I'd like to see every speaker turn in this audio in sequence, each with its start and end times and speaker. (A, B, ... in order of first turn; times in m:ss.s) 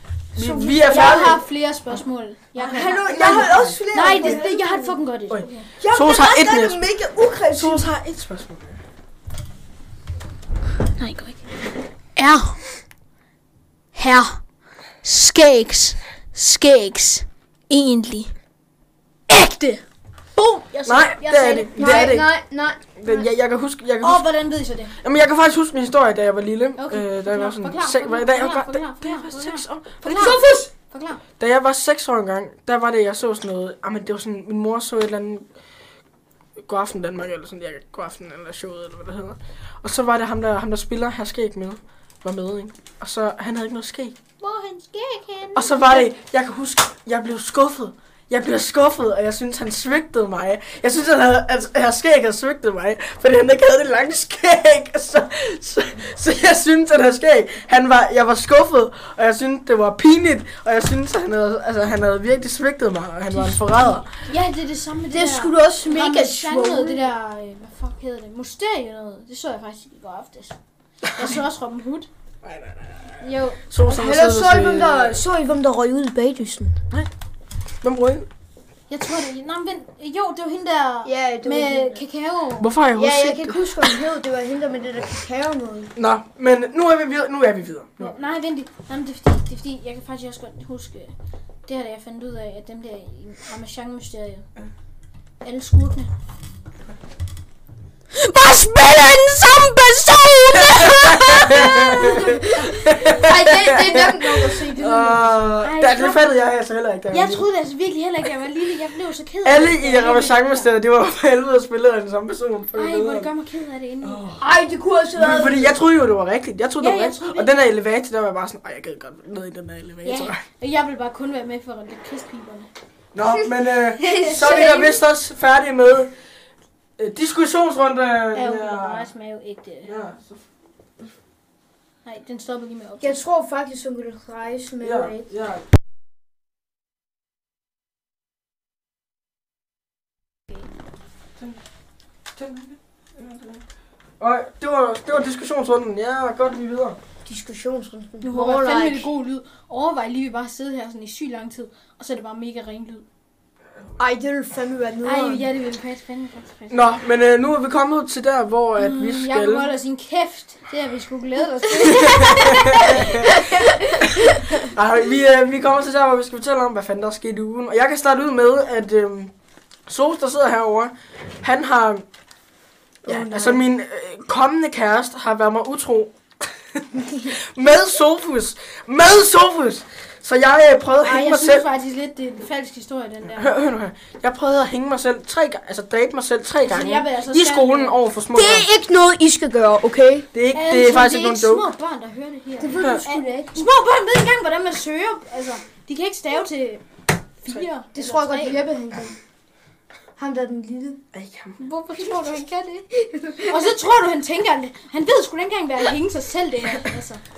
0:00.4-0:01.4 A
0:00.4-0:01.4 B
0:00.8-0:05.7 C
0:02.6-0:05.0 B
0:02.8-0:04.4 A
0:05.3-0:06.8 A
0:05.8-0:07.9 B
0:07.5-0:08.8 A
0:11.0-0:11.6 C
0:12.2-0:12.6 C
0:14.0-0:14.4 C
0:15.0-0:18.3 C
0:19.3-0:19.8 C
0:20.4-0:22.2 C
0:20.8-0:22.3 A
0:21.8-0:23.3 B
0:23.0-0:24.3 A
0:24.0-0:25.0 C
0:25.0-0:30.4 A
0:26.8-0:31.2 C
0:30.1-0:30.7 B
0:31.4-0:35.5 A
0:36.6-0:44.2 A
0:44.4-0:46.1 C
0:45.6-1:04.1 A
1:03.3-1:10.6 C
1:05.1-1:07.1 B
1:11.1-1:12.1 C
1:12.4-1:15.2 A
1:13.2-1:13.8 C
1:13.9-1:16.8 B
1:17.8-1:18.3 A
1:18.9-1:22.7 C
1:21.0-1:22.0 B
1:22.6-1:24.0 A
1:23.0-1:25.9 B
1:26.0-1:28.2 A
1:28.0-1:31.2 C
1:31.7-1:34.5 C
1:35.4-1:36.1 C
1:38.1-1:44.0 C
1:40.7-1:47.5 A
1:43.1-1:45.2 B
1:44.5-1:46.3 C
1:47.1-1:50.7 C
1:49.4-1:53.3 A
1:52.7-1:54.4 C
1:54.0-1:54.4 A
1:54.4-1:55.8 B
1:55.2-2:00.4 A
1:56.8-1:57.6 C
2:00.0-2:02.7 C
2:03.1-2:06.1 A
2:04.0-2:05.0 B
2:07.0-2:09.1 A
2:08.3-2:10.0 C
2:09.8-2:10.4 A
2:12.0-2:13.2 C
2:13.0-2:15.3 B
2:14.8-2:15.6 A
2:22.3-2:23.6 A
2:24.2-2:27.0 A
2:27.2-2:29.1 B
2:28.2-2:33.0 C
2:34.0-2:35.4 B
2:35.0-2:36.8 C
2:36.7-2:39.7 A
2:38.8-2:43.7 C
2:41.6-2:44.7 B
2:41.9-2:43.3 A
2:44.1-2:49.3 A
2:49.9-2:52.0 A
2:53.0-2:53.6 B
2:53.0-3:01.7 A
3:01.0-3:03.6 C
3:03.3-3:08.7 A
3:06.6-3:08.0 C
3:08.3-3:10.3 B
3:10.3-3:11.7 A
3:10.5-3:16.8 C
3:12.6-3:13.6 B
3:17.4-3:18.7 C
3:17.9-3:19.2 B
3:20.2-3:21.0 B
3:21.1-3:21.6 A
3:21.6-3:22.9 C
3:23.0-3:23.7 B
3:23.4-3:27.2 C